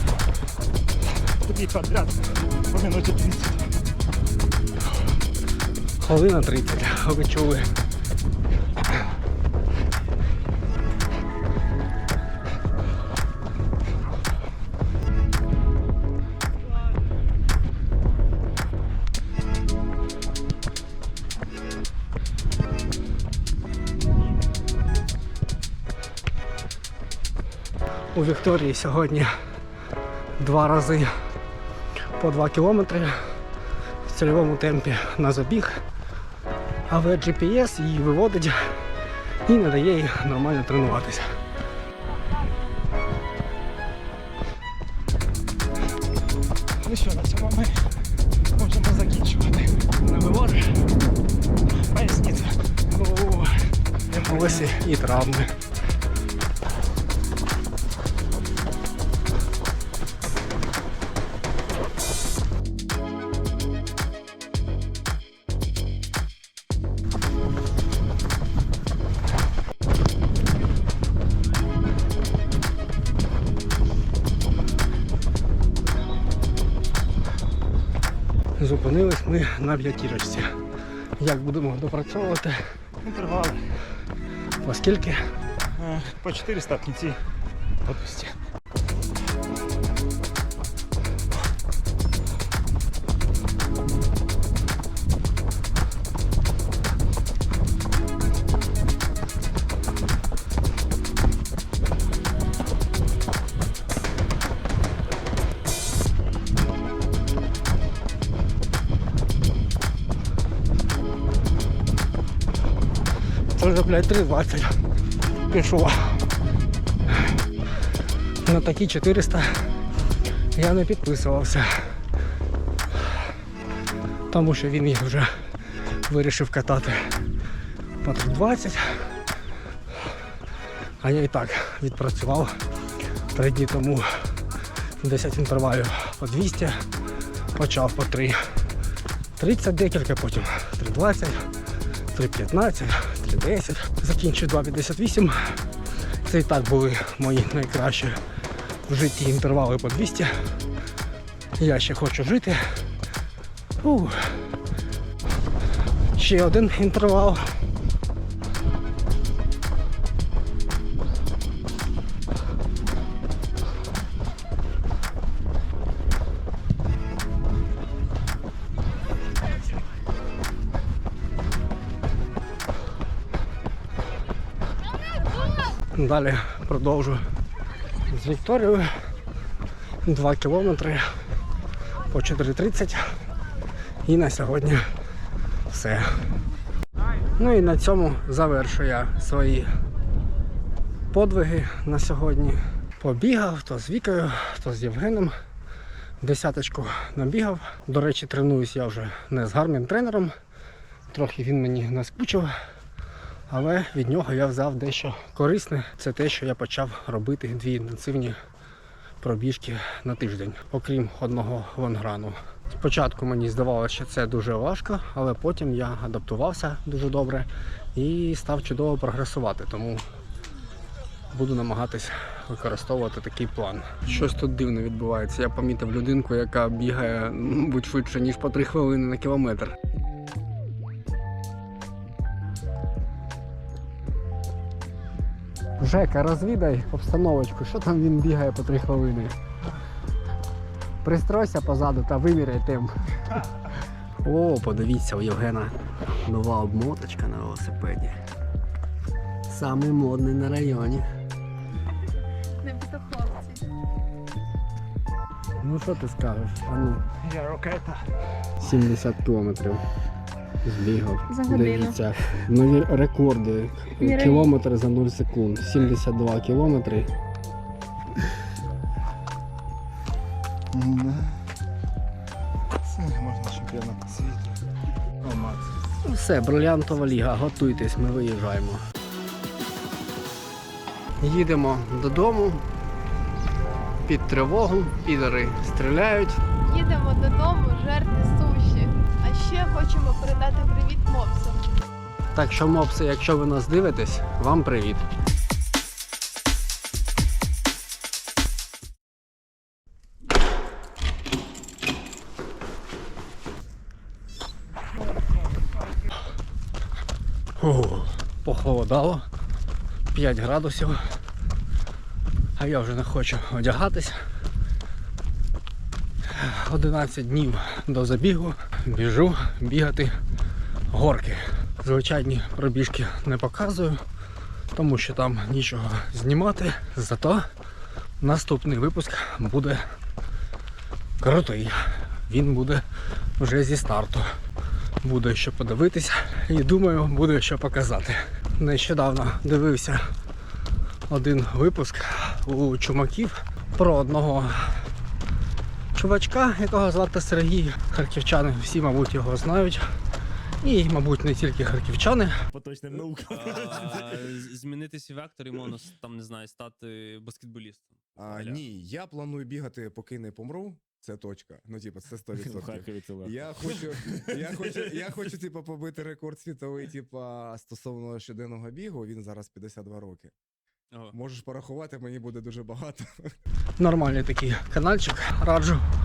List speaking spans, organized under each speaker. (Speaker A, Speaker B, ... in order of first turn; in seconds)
Speaker A: 1.4-3.7, 46.8-47.9, 48.5-49.9, 51.7-52.6, 54.1-54.6, 83.0-83.7, 85.8-87.2, 87.8-88.4, 257.2-258.1, 270.7-271.4, 272.8-274.6, 275.2-275.6
Speaker B: 6.0-7.7, 28.1-29.3, 30.4-31.1, 32.1-33.4, 34.0-35.8, 36.9-38.9, 39.5-41.4, 50.0-50.8, 52.9-53.7, 54.2-55.6, 78.6-80.6, 81.2-82.7, 84.6-85.3, 113.5-114.8, 115.5-116.2, 118.4-119.8, 120.5-122.0, 124.3-125.3, 125.9-127.2, 128.0-129.1, 131.0-132.6, 133.3-134.4, 135.0-136.8, 137.5-138.5, 139.4-141.4, 142.1-148.2, 148.9-150.3, 151.6-152.8, 153.8-154.4, 156.1-157.4, 175.9-177.3, 178.1-178.9, 180.0-181.1, 182.1-183.1, 184.0-184.9, 185.7-186.2, 187.4-189.7, 191.1-195.3, 196.2-200.3, 201.1-202.5, 203.5-208.4, 209.2-220.0, 221.3-229.8, 235.8-239.3, 241.0-242.9, 244.2-248.2, 249.4-251.1, 255.6-257.0, 258.6-259.8, 260.6-267.1, 276.0-278.8, 281.2-282.6, 284.1-286.4, 292.3-295.0, 307.6-309.2, 310.1-311.0, 312.6-314.2, 316.2-320.2, 320.9-324.0, 324.7-327.5, 328.2-329.8, 331.2-332.8, 333.4-334.3, 335.0-340.0, 341.1-344.8, 345.9-349.8, 350.6-352.3, 373.8-375.8
Speaker C: 252.6-253.7, 261.3-262.0, 264.0-264.5, 286.7-291.6
Speaker D: 352.5-354.0, 362.4-363.4
Speaker E: 353.3-358.6, 363.6-364.7
Speaker F: 358.2-370.3, 371.1-373.3